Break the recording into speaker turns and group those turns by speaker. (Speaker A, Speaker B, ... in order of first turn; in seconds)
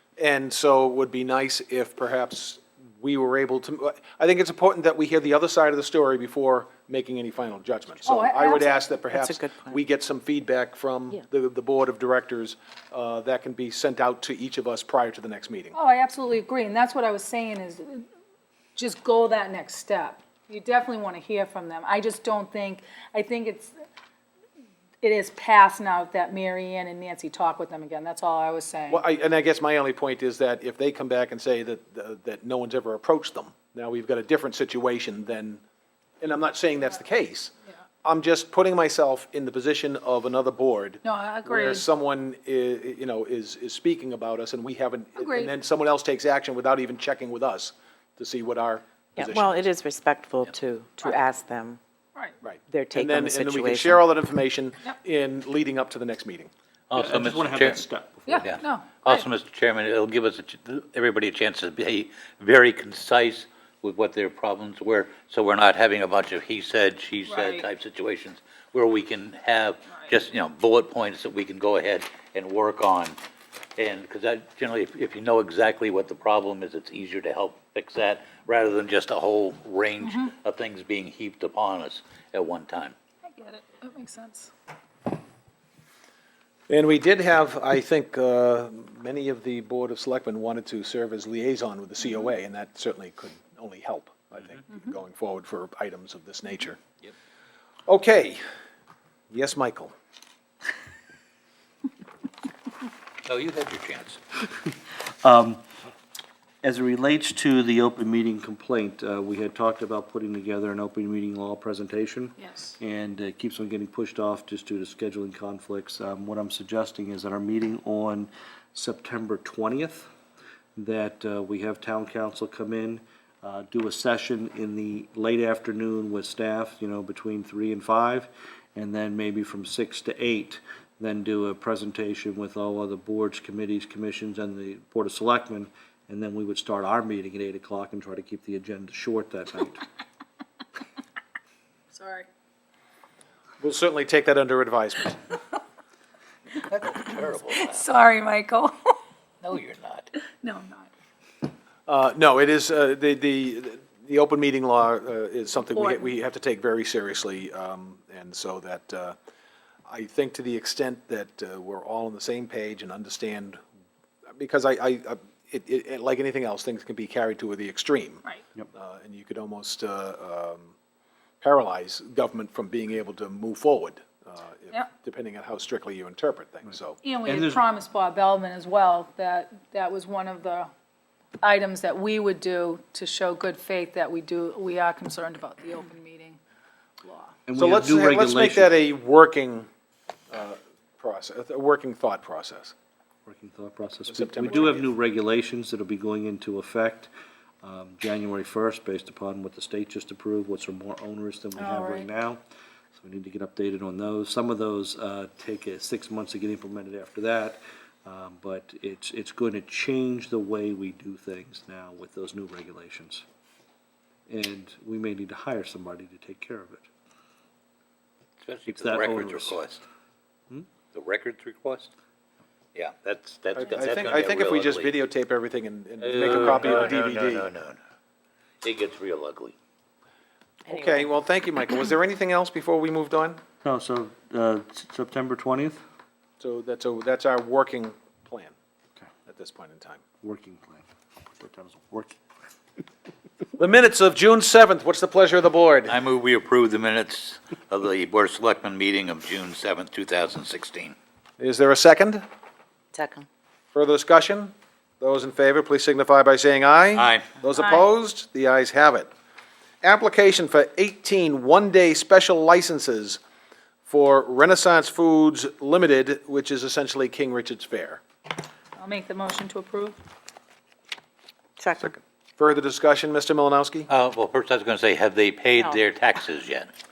Speaker A: 0.2-15.7, 28.9-35.6, 36.2-37.5, 38.0-49.7, 52.4-56.5, 86.7-96.8, 97.9-98.4, 99.3-99.9, 143.6-145.2, 151.9-159.2, 159.9-163.6, 164.4-170.7, 171.4-177.0, 187.6-189.7, 190.3-192.7, 194.1-194.9, 223.6-227.5, 230.7-233.4, 236.4-238.6, 239.3-240.0, 243.6-245.9, 251.4-252.2, 253.7-259.1, 259.8-263.2, 263.9-268.0, 271.8-273.9
Speaker B: 8.1-8.9, 15.7-18.1, 18.8-23.7, 25.0-29.1, 41.0-41.9, 45.2-45.5, 58.3-59.3, 67.3-67.7, 80.0-80.3, 83.2-84.5, 112.5-112.7, 141.9-142.3, 147.5-149.0, 150.4-150.9, 155.7-156.1, 177.0-180.7, 181.4-186.4, 187.0-187.3, 201.6-202.1, 268.8-270.0
Speaker C: 9.1-9.8, 49.2-51.8, 52.7-54.0, 230.7-231.0, 252.9-253.3, 271.6-271.9, 275.5-275.8
Speaker D: 56.9-57.8, 58.4-73.2, 73.8-83.0, 103.3-104.2, 146.6-147.9, 149.4-150.1, 218.4-219.8, 220.9-221.9, 222.8-225.0, 226.0-227.8, 228.6-229.5, 245.9-250.9, 256.9-257.3, 273.9-276.7
Speaker E: 56.9-58.6, 104.5-105.6, 106.6-120.1, 120.8-139.8, 177.3-177.6, 187.5-188.7, 193.3-197.1, 197.6-202.4, 202.9-213.2, 214.3-216.9, 218.7-219.7, 233.6-235.8, 240.2-242.2